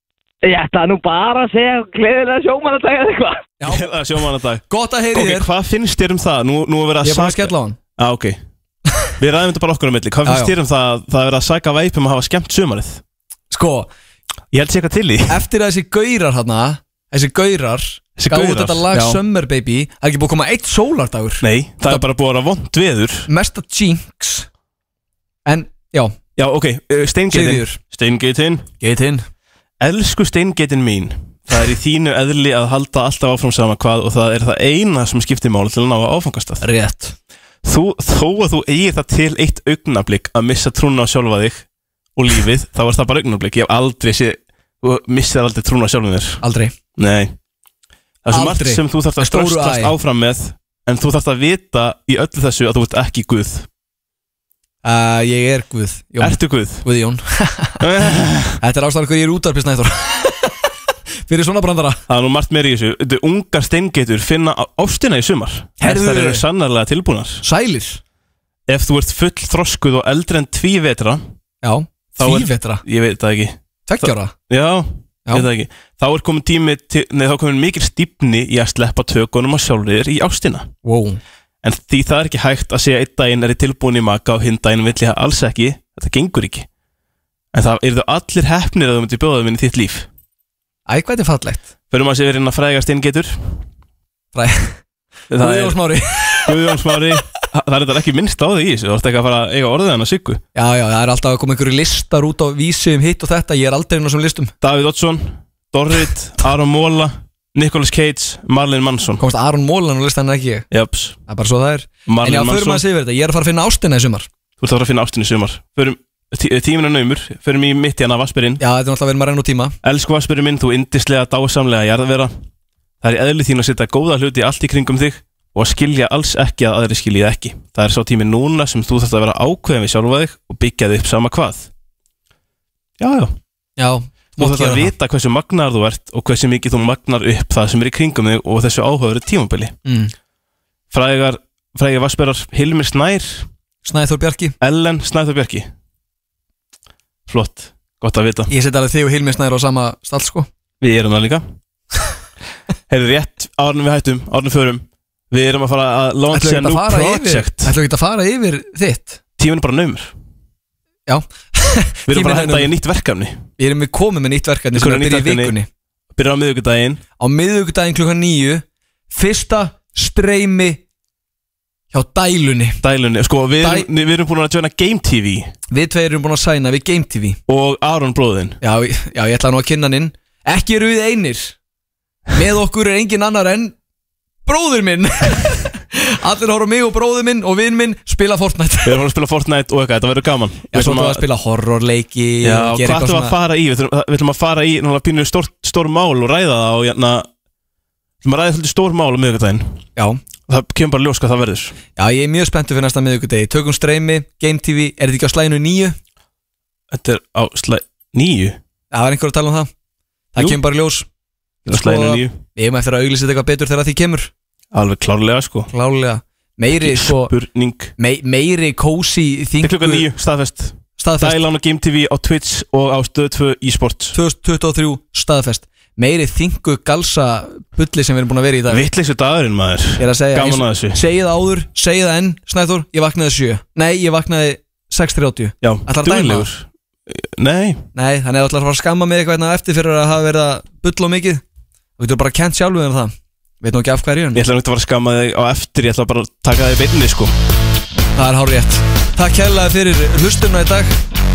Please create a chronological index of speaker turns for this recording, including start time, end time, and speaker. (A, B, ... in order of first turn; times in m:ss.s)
0:00.4-0:03.5 A
0:03.6-0:03.9 B
0:03.6-0:08.4 C
0:04.7-0:05.5 B
0:07.0-0:07.8 B
0:09.2-0:13.0 C
0:10.2-0:10.5 B
0:13.5-0:13.9 B
0:14.5-0:15.4 C
0:15.3-0:22.0 B
0:18.2-0:19.2 C
0:21.4-0:23.3 C
0:23.3-0:24.5 B
0:25.4-0:26.1 B
0:26.4-0:28.7 C
0:27.3-0:27.8 B
0:28.8-0:29.3 B
0:29.8-0:36.6 C
0:36.6-0:37.1 B
0:37.6-0:46.4 C
0:46.4-0:46.7 B
0:47.0-0:47.4 C
0:48.2-0:53.7 C
0:48.3-0:49.9 B
0:54.8-0:57.8 B
0:56.2-0:56.8 C
0:57.8-0:58.6 C
0:58.6-1:00.7 B
1:01.3-1:02.0 B
1:02.1-1:07.4 C
1:05.8-1:06.4 B
1:07.4-1:08.0 B
1:08.7-1:11.2 C
1:11.6-1:12.8 B
1:12.2-1:20.7 C
1:13.9-1:14.3 B
1:20.8-1:21.2 B
1:21.6-1:26.7 C
1:27.5-1:30.1 C
1:30.9-1:31.7 B
1:31.9-1:33.5 C
1:34.3-1:34.8 B
1:35.3-1:35.8 C
1:35.4-1:36.8 B
1:36.4-1:40.4 C
1:40.5-1:44.5 B
1:44.6-1:49.2 C
1:49.2-1:50.7 B
1:50.7-1:51.2 C
1:51.3-1:54.3 B
1:52.1-1:52.8 C
1:54.6-1:58.6 C
1:58.6-1:59.7 B
1:59.8-2:02.3 C
2:03.0-2:11.7 C
2:13.0-2:13.4 C
2:13.8-2:14.9 B
2:14.4-2:19.8 C
2:19.8-2:20.1 B
2:20.9-2:23.5 C
2:23.8-2:24.5 B
2:24.6-2:25.7 C
2:27.3-2:28.5 C
2:28.5-2:30.5 B
2:30.8-2:31.4 C
2:32.9-2:37.7 C
2:36.3-2:39.2 B
2:39.4-2:40.1 C
2:41.1-2:42.7 B
2:42.1-2:43.4 C
2:43.6-2:45.7 B
2:44.7-2:45.6 C
2:46.1-2:47.0 C
2:47.2-2:50.8 B
2:51.9-2:52.8 B
2:52.8-2:55.5 C
2:53.6-2:53.9 B
2:55.7-2:57.4 B
2:57.5-2:58.6 C
2:58.6-3:01.6 B
3:02.3-3:03.7 B
3:04.4-3:09.0 B
3:08.8-3:11.2 C
3:10.7-3:13.3 B
3:12.4-3:17.3 C
3:18.2-3:19.8 C
3:20.5-3:21.8 C
3:22.0-3:26.0 B
3:26.9-3:28.6 C
3:28.9-3:29.7 B
3:30.3-3:31.1 B
3:31.6-3:34.3 B
3:31.7-3:32.4 C
3:34.7-3:35.7 C
3:35.7-3:37.3 B
3:36.8-3:37.9 C
3:38.0-3:40.1 B
3:39.6-3:44.1 C
3:41.0-3:41.4 B
3:44.1-3:48.8 B
3:48.7-3:51.0 C
3:50.0-3:56.5 B
3:55.6-3:57.8 C
3:57.9-4:01.4 B
4:02.0-4:04.4 B
4:04.3-4:07.3 C
4:08.2-4:11.0 B